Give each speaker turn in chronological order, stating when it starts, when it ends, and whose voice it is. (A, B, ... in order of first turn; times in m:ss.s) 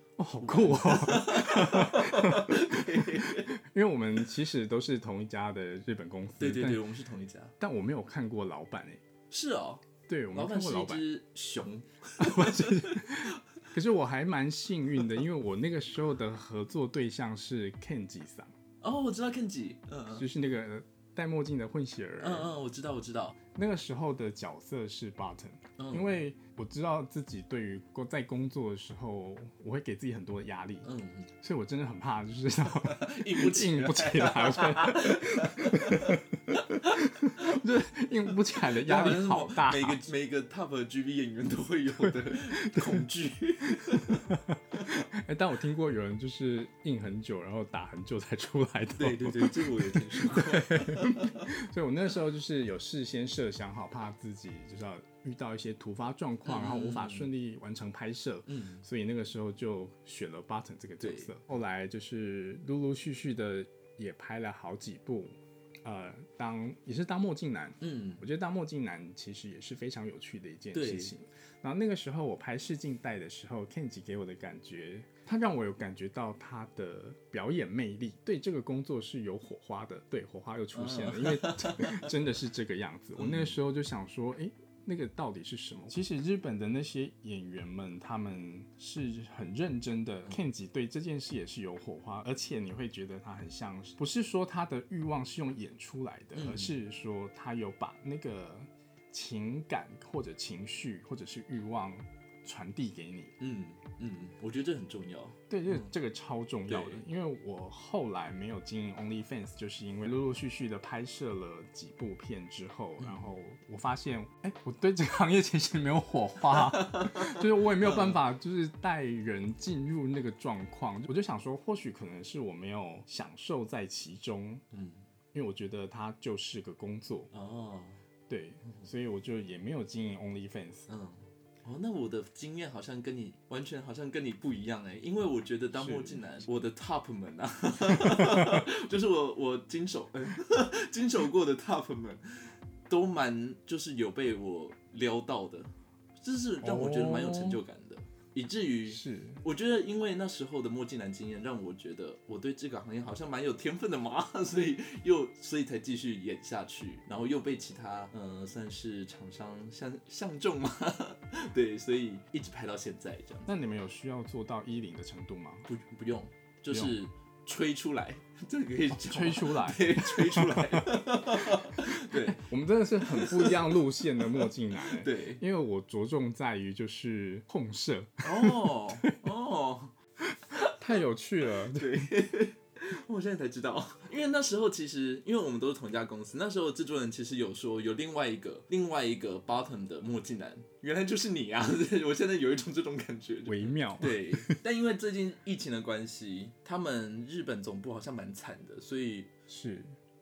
0:00.2-0:06.8 A
0:00.4-0:03.5 B
0:06.4-0:07.5 B
0:07.6-0:09.0 A
0:09.3-0:13.1 B
0:10.1-0:11.0 A
0:12.2-0:18.5 A
0:18.8-0:20.3 B
0:20.1-0:22.5 A
0:22.2-0:23.4 B
0:23.6-0:40.1 A
0:25.8-0:26.2 B
0:30.8-0:31.3 B
0:32.6-0:36.6 B
0:38.7-0:44.3 B
0:42.0-0:43.0 A
0:44.3-1:43.4 A
0:49.0-0:51.5 B
0:56.4-0:57.3 B
0:58.5-0:58.8 B
1:01.0-1:01.3 B
1:07.8-1:08.2 B
1:10.7-1:11.1 B
1:20.7-1:22.1 B
1:23.2-1:23.6 B
1:36.3-1:36.8 B
1:43.4-1:45.9 B
1:45.5-2:04.6 A
1:46.7-1:47.0 B
1:53.0-1:53.3 B
1:56.8-1:58.2 B
2:04.7-2:05.1 B
2:05.3-2:07.3 A
2:07.3-2:08.0 B
2:08.3-2:10.9 A
2:10.9-2:43.5 B
2:15.8-2:16.4 A
2:26.6-2:27.6 A
2:28.9-2:29.4 A
2:43.5-2:45.7 A
2:45.7-2:52.4 B
2:46.7-2:47.0 A
2:48.9-2:51.0 A
2:51.5-2:59.1 A
2:53.0-2:55.4 B
2:58.2-2:59.9 B
3:00.5-3:01.9 A
3:01.7-3:19.3 B
3:13.5-3:14.6 A
3:19.5-3:20.0 A